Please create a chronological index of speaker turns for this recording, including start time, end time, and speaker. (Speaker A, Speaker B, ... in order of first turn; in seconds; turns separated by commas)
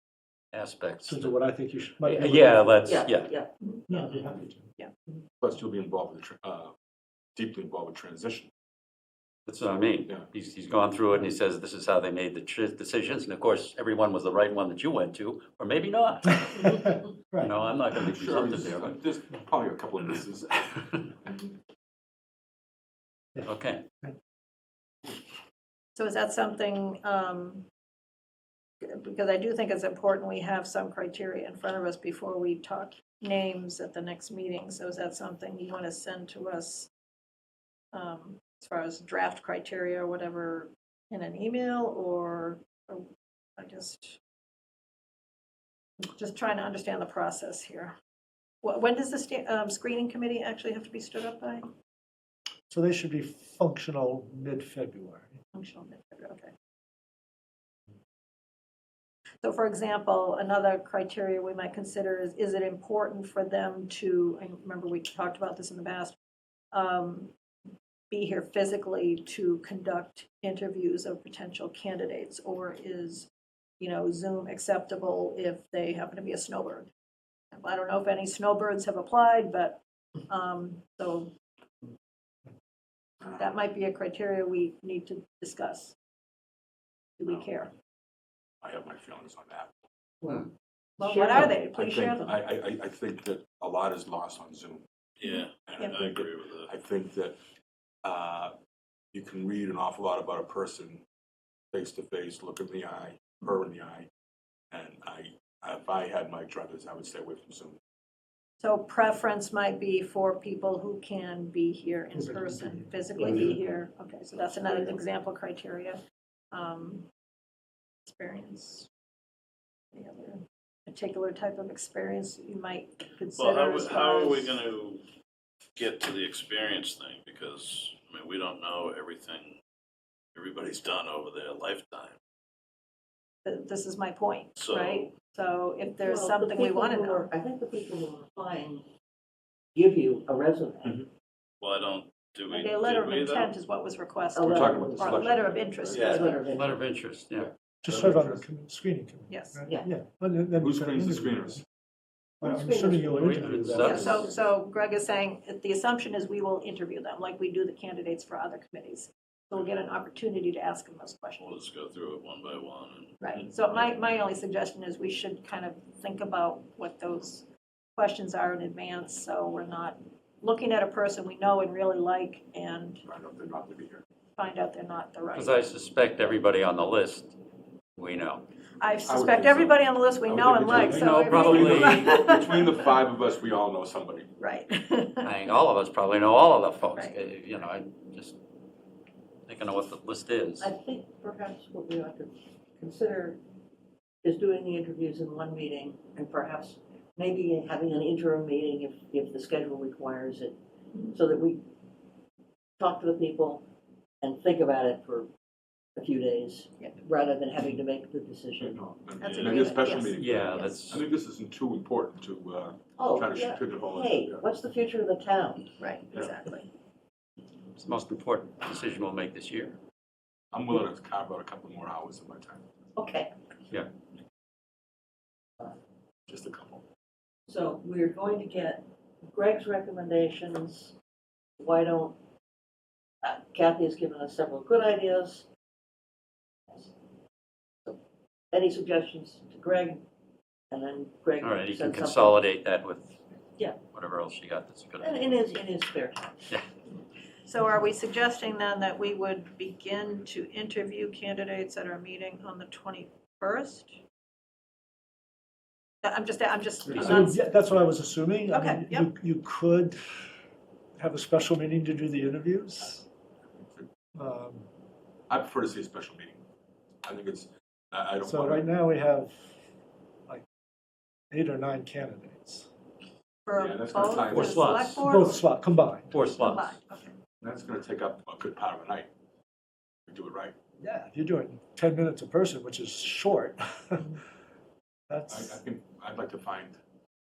Speaker A: 0.5-1.4, Speaker B: 1.0-3.0, Speaker A: 2.0-3.3, Speaker C: 2.8-3.5, Speaker B: 3.9-4.7, Speaker D: 5.4-6.7, Speaker D: 7.3-8.5, Speaker A: 9.4-18.9, Speaker B: 17.3-17.6, Speaker D: 18.1-20.7, Speaker A: 23.4-23.8, Speaker E: 25.9-27.6, Speaker E: 28.8-36.9, Speaker E: 37.9-44.2, Speaker E: 46.0-47.9, Speaker E: 48.6-51.7, Speaker B: 52.7-55.4, Speaker E: 55.5-56.5, Speaker E: 59.4-66.2, Speaker E: 66.7-67.3, Speaker E: 68.1-76.9, Speaker E: 77.5-81.3, Speaker D: 83.2-83.6, Speaker E: 83.3-86.0, Speaker E: 87.2-87.7, Speaker D: 88.6-89.7, Speaker E: 91.0-92.4, Speaker C: 91.0-91.7, Speaker D: 91.7-94.8, Speaker F: 95.2-96.7, Speaker E: 95.2-96.0, Speaker D: 95.5-97.4, Speaker D: 98.0-98.5, Speaker D: 99.1-101.0, Speaker D: 101.7-104.1, Speaker D: 104.7-107.8, Speaker E: 108.6-116.0, Speaker B: 112.1-113.6, Speaker C: 113.2-113.5, Speaker C: 114.6-114.9, Speaker E: 116.5-117.1, Speaker E: 118.0-118.9, Speaker E: 119.9-124.6, Speaker F: 123.3-125.0, Speaker F: 125.8-129.6, Speaker F: 130.3-132.2, Speaker E: 133.4-137.3, Speaker F: 134.6-135.1, Speaker C: 136.1-138.9, Speaker C: 139.7-141.0, Speaker F: 141.6-143.5, Speaker E: 142.5-146.5, Speaker C: 144.3-145.4, Speaker D: 144.5-146.2, Speaker F: 145.9-146.4, Speaker C: 146.1-146.8, Speaker A: 146.5-147.5, Speaker D: 147.4-148.4, Speaker B: 147.8-151.6, Speaker E: 149.3-149.7, Speaker D: 150.6-151.6, Speaker C: 152.4-153.2, Speaker B: 152.4-154.3, Speaker A: 153.1-154.3, Speaker C: 153.8-154.2, Speaker E: 153.9-161.6, Speaker F: 161.4-163.9, Speaker E: 163.2-173.0, Speaker D: 173.0-174.0, Speaker E: 174.4-175.6, Speaker A: 175.3-177.3, Speaker A: 177.9-178.4, Speaker E: 178.8-182.9, Speaker D: 179.0-184.3, Speaker A: 180.7-182.1, Speaker E: 184.4-185.3, Speaker A: 185.2-188.4, Speaker A: 189.4-190.7, Speaker C: 190.6-193.4, Speaker C: 194.2-200.6, Speaker E: 200.9-201.2, Speaker C: 201.1-201.6, Speaker C: 202.8-203.7, Speaker C: 204.2-205.3, Speaker C: 205.9-208.7, Speaker D: 208.6-214.4, Speaker E: 209.2-210.9, Speaker C: 209.4-209.8, Speaker A: 210.2-211.0, Speaker C: 213.0-215.7, Speaker E: 215.8-216.7, Speaker D: 216.1-216.3, Speaker A: 217.7-219.8, Speaker D: 220.5-222.7, Speaker C: 222.9-223.3, Speaker D: 226.3-226.8, Speaker C: 227.5-230.9, Speaker C: 231.6-232.1, Speaker C: 233.2-235.5, Speaker C: 238.5-240.0, Speaker C: 240.7-242.4, Speaker A: 241.4-243.2, Speaker A: 243.8-245.3, Speaker C: 245.0-246.4, Speaker E: 247.4-254.0, Speaker E: 256.0-257.4, Speaker A: 256.9-257.3, Speaker B: 256.9-260.2, Speaker E: 258.5-259.1, Speaker B: 261.0-263.0, Speaker D: 263.6-263.9, Speaker B: 264.1-264.7, Speaker D: 265.3-266.4, Speaker D: 267.0-268.7, Speaker B: 268.2-269.5, Speaker B: 271.3-272.7, Speaker E: 273.4-275.5, Speaker D: 273.5-274.7, Speaker A: 274.3-275.1, Speaker B: 275.0-276.2, Speaker A: 276.1-276.8, Speaker E: 276.3-277.2, Speaker D: 277.4-279.1, Speaker D: 280.1-280.5, Speaker B: 280.8-284.2, Speaker B: 285.1-285.6, Speaker D: 285.3-286.8